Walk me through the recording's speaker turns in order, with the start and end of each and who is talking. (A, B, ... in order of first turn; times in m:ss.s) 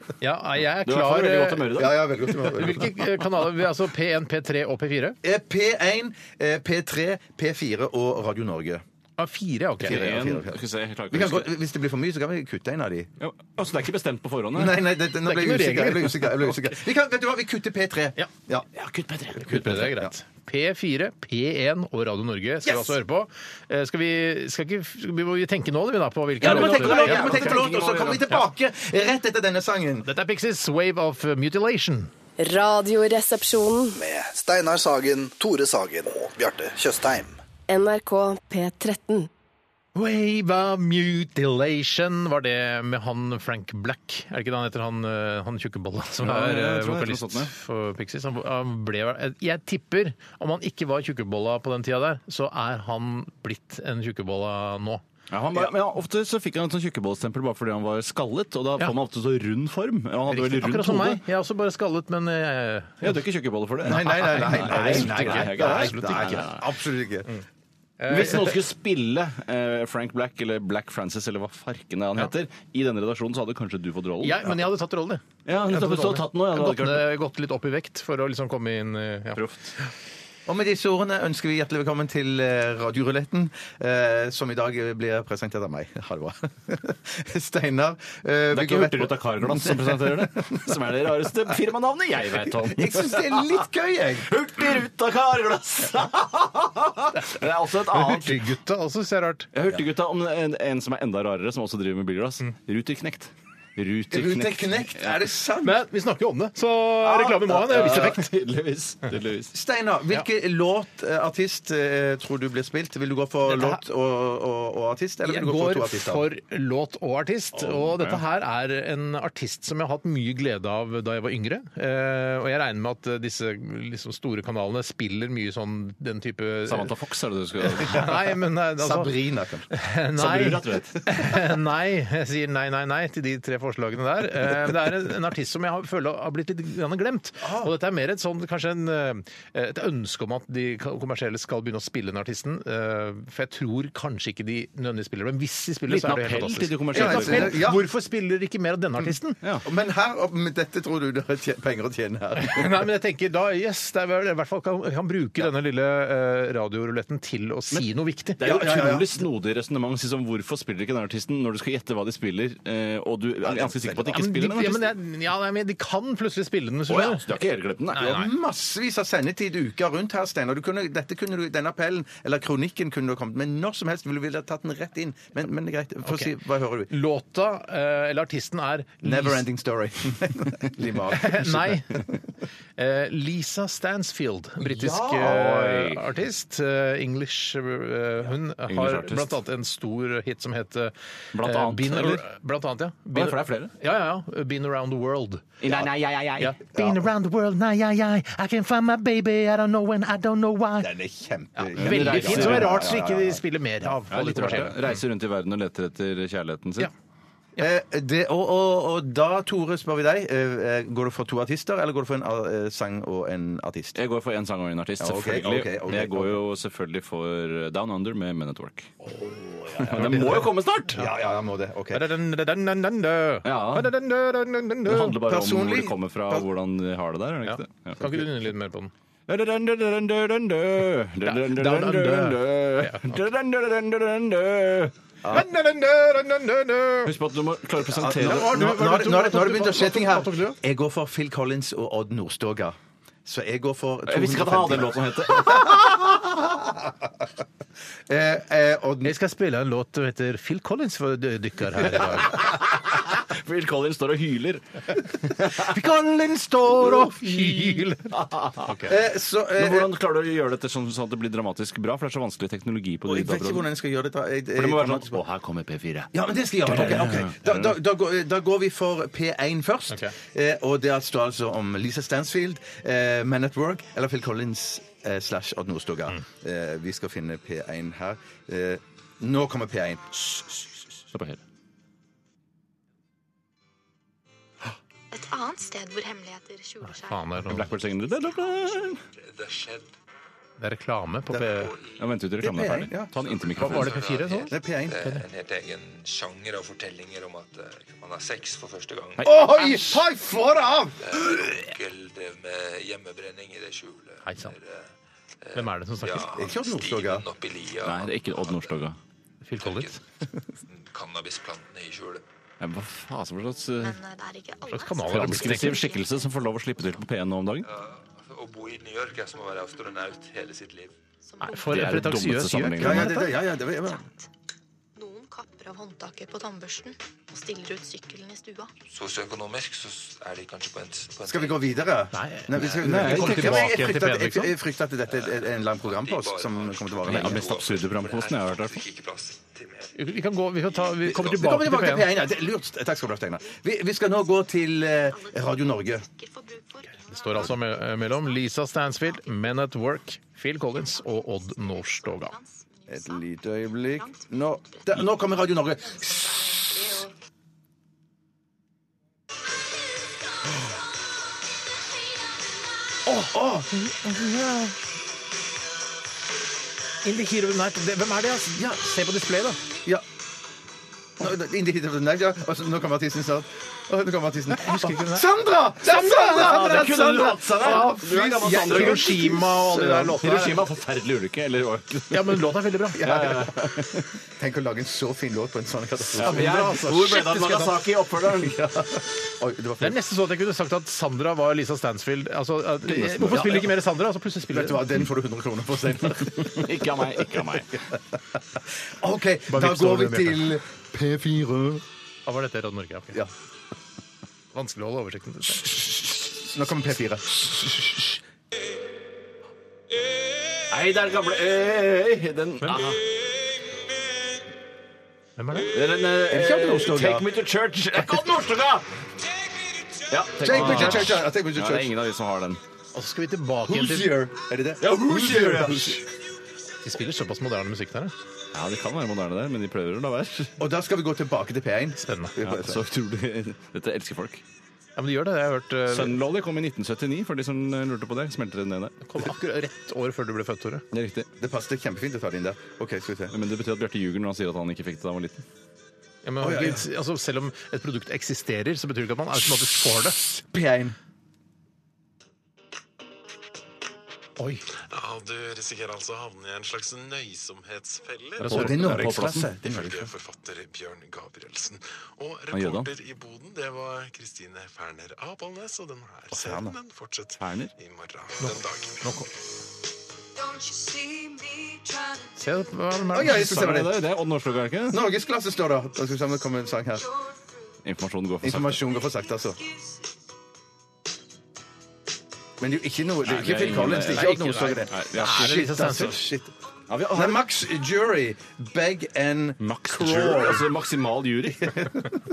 0:00.2-0:05.2 A
0:00.8-0:02.1 B
0:01.7-0:02.9 C
0:05.2-0:08.8 C
0:09.2-0:10.0 A
0:09.8-0:13.1 C
0:09.8-0:11.5 B
0:13.2-0:14.8 B
0:14.5-0:18.7 C
0:15.2-0:16.6 A
0:18.8-0:19.8 B
0:19.4-0:27.7 A
0:19.5-0:20.1 C
0:22.7-0:22.9 C
0:26.4-0:28.2 B
0:26.4-0:30.1 C
0:30.0-0:32.1 A
0:32.4-0:34.0 D
0:34.0-0:37.4 E
0:37.7-0:39.3 D
0:40.0-0:55.0 A
0:46.2-0:47.5 B
0:55.3-1:01.2 B
1:00.3-1:03.2 A
1:03.0-1:06.6 B
1:03.8-1:07.3 C
1:03.9-1:06.5 A
1:08.0-1:08.6 A
1:08.1-1:14.6 B
1:14.2-1:19.8 A
1:15.5-1:17.1 B
1:19.4-1:19.8 B
1:20.5-1:30.6 C
1:28.5-1:33.6 B
1:32.6-1:34.3 C
1:34.2-1:38.4 B
1:37.9-1:39.5 A
1:39.5-1:45.2 B
1:44.1-1:45.8 C
1:45.6-1:48.3 A
1:47.0-1:48.2 C
1:47.7-1:49.5 B
1:49.5-1:56.3 C
1:53.5-1:53.8 A
1:55.2-2:06.9 A
2:06.7-2:08.2 B
2:07.7-2:09.1 A
2:08.8-2:09.7 C
2:09.7-2:29.4 A
2:10.2-2:11.0 B
2:17.4-2:17.7 C
2:25.9-2:27.6 B
2:26.9-2:27.8 C
2:29.6-2:32.9 C
2:32.4-2:38.4 A
2:38.4-2:44.9 B
2:38.4-2:39.2 C
2:43.4-2:44.2 C
2:44.1-2:47.2 A
2:46.9-2:48.2 B
2:48.0-2:56.9 C
2:48.0-2:48.3 A
2:56.0-2:56.3 A
2:56.9-2:59.4 A
2:59.0-3:01.8 C
3:01.1-3:02.0 A
3:02.8-3:15.5 A
3:04.6-3:05.4 C
3:05.2-3:06.0 B
3:08.7-3:09.4 B
3:11.3-3:12.2 B
3:13.2-3:13.7 B
3:15.6-3:16.6 B
3:15.6-3:15.9 C
3:16.4-3:20.9 A
3:16.7-3:17.0 C
3:20.8-3:23.4 C
3:21.6-3:24.8 A
3:21.8-3:22.9 B
3:24.1-3:26.9 B
3:27.6-3:34.0 C
3:34.0-3:38.9 B
3:35.0-3:36.4 C
3:39.7-3:42.0 C
3:39.8-3:41.1 B
3:39.9-3:40.5 A
3:41.9-3:45.2 A
3:43.4-3:43.9 B
3:44.9-3:48.2 B
3:45.1-3:46.5 C
3:47.5-3:48.9 A
3:49.3-3:54.9 B
3:51.2-3:53.2 A
3:55.3-3:57.1 A
3:57.1-3:58.6 B
3:57.8-4:07.2 C
3:58.2-4:00.6 A
4:04.1-4:06.1 B
4:08.1-4:09.1 C
4:09.0-4:12.4 A
4:12.2-4:14.6 B
4:15.2-4:15.7 B
4:15.5-4:18.1 A
4:16.9-4:18.8 B
4:18.6-4:18.9 A
4:18.8-4:19.9 C
4:19.6-4:23.7 B
4:23.0-4:25.2 C
4:24.5-4:26.1 B
4:26.1-4:40.6 C
4:26.7-4:27.7 B
4:41.1-4:41.4 B
4:45.1-4:48.6 F
4:46.8-4:47.7 A
4:47.4-4:49.0 B
4:49.1-4:49.9 G
4:50.6-4:51.7 A
4:51.5-4:52.1 G
4:52.0-4:54.0 B
4:52.4-4:53.2 C
4:53.2-4:59.9 G
4:53.6-4:55.2 A
4:54.5-4:55.0 C
4:59.2-5:01.5 C
5:01.0-5:04.9 G
5:04.2-5:04.6 A
5:05.4-5:08.7 G
5:05.6-5:06.4 A
5:06.3-5:07.3 C
5:07.8-5:09.0 B
5:09.4-5:10.0 A
5:09.6-5:10.0 G
5:10.7-5:12.2 G
5:12.6-5:14.0 B
5:13.8-5:16.3 F
5:14.7-5:15.8 A
5:15.1-5:17.7 B
5:17.6-5:21.0 G
5:21.2-5:22.1 F
5:21.4-5:23.3 A
5:21.7-5:23.1 B
5:22.8-5:24.0 C
5:23.4-5:24.3 F
5:25.0-5:28.7 F
5:28.9-5:31.8 G
5:31.3-5:37.5 C
5:32.1-5:34.5 A
5:32.8-5:33.7 B
5:35.1-5:40.0 G
5:37.0-5:38.8 B
5:40.0-5:42.1 A
5:40.8-5:41.0 G
5:41.0-5:46.1 C
5:45.1-5:49.6 F
5:47.1-5:52.3 A
5:50.6-5:55.0 F
5:52.9-5:57.0 C
5:55.8-5:57.1 F
6:03.1-6:04.7 A
6:03.3-6:03.7 C
6:07.0-6:09.6 A
6:11.2-6:20.3 C
6:14.5-6:15.3 A
6:15.8-6:16.9 A
6:16.2-6:19.3 B
6:17.6-6:18.0 A
6:18.5-6:20.6 A
6:20.2-6:24.0 B
6:22.1-6:23.5 A
6:23.0-6:26.6 C
6:26.2-6:28.6 B
6:26.2-6:27.8 A
6:28.4-6:30.0 C
6:29.8-6:34.8 A
6:32.9-6:33.7 B
6:34.5-6:37.1 C
6:36.5-6:37.8 B
6:38.9-6:41.8 C
6:39.5-6:40.5 A
6:42.3-6:43.2 A
6:44.5-6:45.7 A
6:45.6-6:48.2 C
6:50.6-6:53.0 B
6:52.6-6:53.0 A
6:55.4-6:55.7 A
6:55.7-6:58.9 B
6:56.2-6:57.3 C
7:00.1-7:02.6 B
7:00.4-7:02.0 C
7:00.5-7:01.1 A
7:03.0-7:04.2 A
7:03.7-7:06.0 C
7:04.8-7:06.0 B
7:06.8-7:08.1 A
7:08.5-7:10.6 B
7:10.6-7:12.8 C
7:12.0-7:12.4 A
7:12.4-7:14.4 B
7:15.0-7:16.2 A
7:15.9-7:19.0 B
7:19.0-7:20.8 A
7:20.9-7:21.3 B
7:21.4-7:23.4 C
7:23.3-7:25.4 B
7:26.2-7:30.2 A
7:26.4-7:26.8 C
7:30.2-7:31.0 C
7:34.4-7:34.6 A
7:34.9-7:38.4 H
7:38.4-7:39.3 A
7:38.5-7:39.4 B
7:38.5-7:40.1 C
7:40.1-7:49.0 H
7:42.5-7:43.0 B
7:46.3-7:46.8 C
7:47.4-7:47.7 B
7:48.4-7:49.3 A
7:52.4-7:53.7 A
7:53.1-7:54.0 C
7:53.2-7:55.0 B
7:54.9-7:57.2 C
7:57.8-7:58.8 B
7:58.4-7:59.6 C
8:02.6-8:06.5 C
8:03.2-8:04.4 B
8:04.1-8:06.2 A
8:04.9-8:05.7 B
8:06.9-8:07.5 B
8:07.1-8:10.7 C
8:09.6-8:11.9 B